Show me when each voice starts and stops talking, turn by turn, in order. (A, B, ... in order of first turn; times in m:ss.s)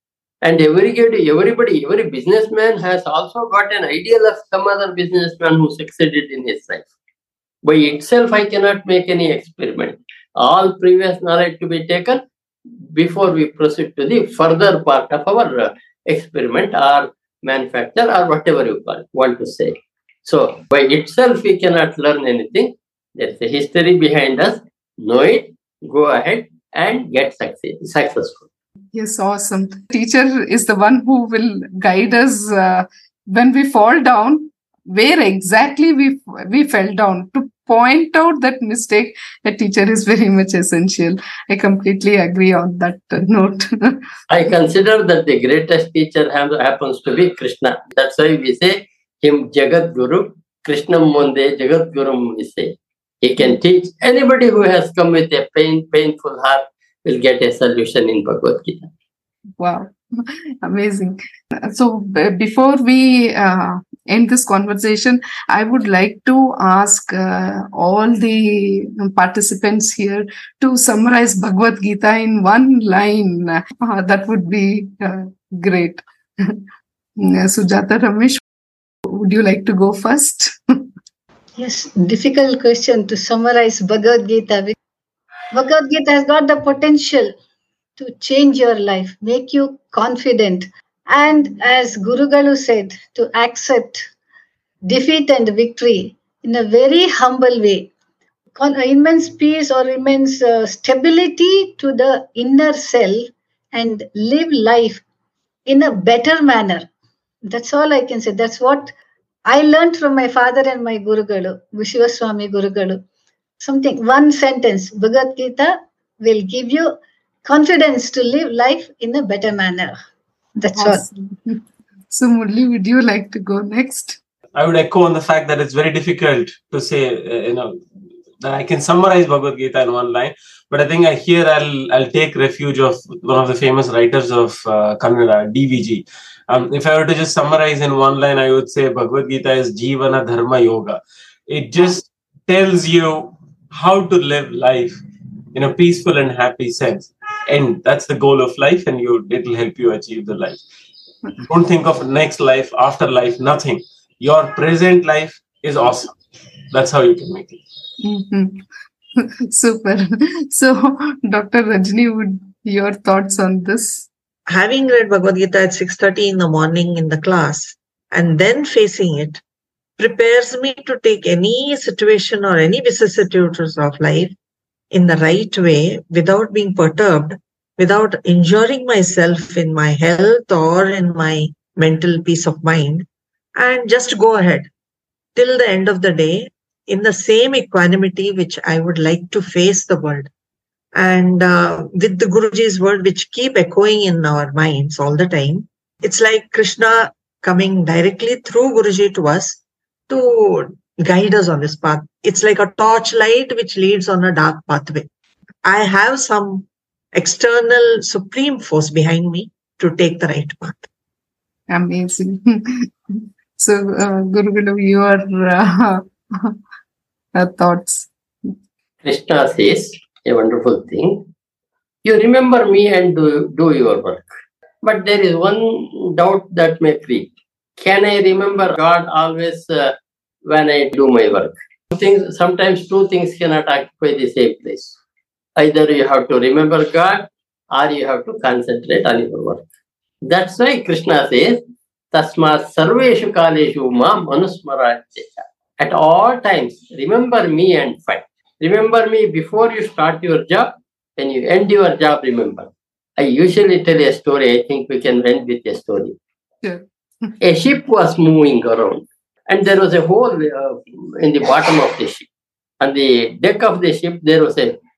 0:00.4-0:06.9 A
0:07.6-0:12.2 A
0:12.9-0:19.7 A
0:20.2-0:28.4 A
0:28.9-0:44.0 B
0:44.3-0:58.9 A
0:59.6-1:16.6 B
1:17.2-1:18.4 B
1:19.1-1:20.6 B
1:21.6-1:24.7 C
1:25.5-1:27.3 C
1:28.0-1:34.0 C
1:34.9-1:37.9 C
1:38.6-1:45.0 C
1:45.7-1:46.9 C
1:47.5-1:48.9 C
1:49.5-1:53.0 C
1:53.6-2:00.0 C
2:00.6-2:01.0 C
2:00.8-2:04.2 B
2:04.6-2:07.8 D
2:08.4-2:25.0 D
2:25.5-2:30.6 D
2:31.4-2:36.2 D
2:36.7-2:37.6 D
2:38.0-2:38.6 B
2:39.2-2:44.1 B
2:44.5-2:49.4 E
2:50.0-2:54.3 E
2:54.9-3:03.0 E
3:03.6-3:04.7 E
3:05.4-3:10.3 E
3:11.0-3:25.1 E
3:25.6-3:30.9 E
3:31.7-3:36.6 B
3:37.3-3:38.5 B
3:39.0-3:41.3 A
3:42.0-3:44.3 A
3:44.8-3:49.9 A
3:50.5-3:55.0 A
3:55.6-3:59.6 A
4:00.3-4:01.6 A
4:02.1-4:16.2 A
4:16.6-4:17.3 B
4:17.4-4:22.3 A
4:22.8-4:24.7 A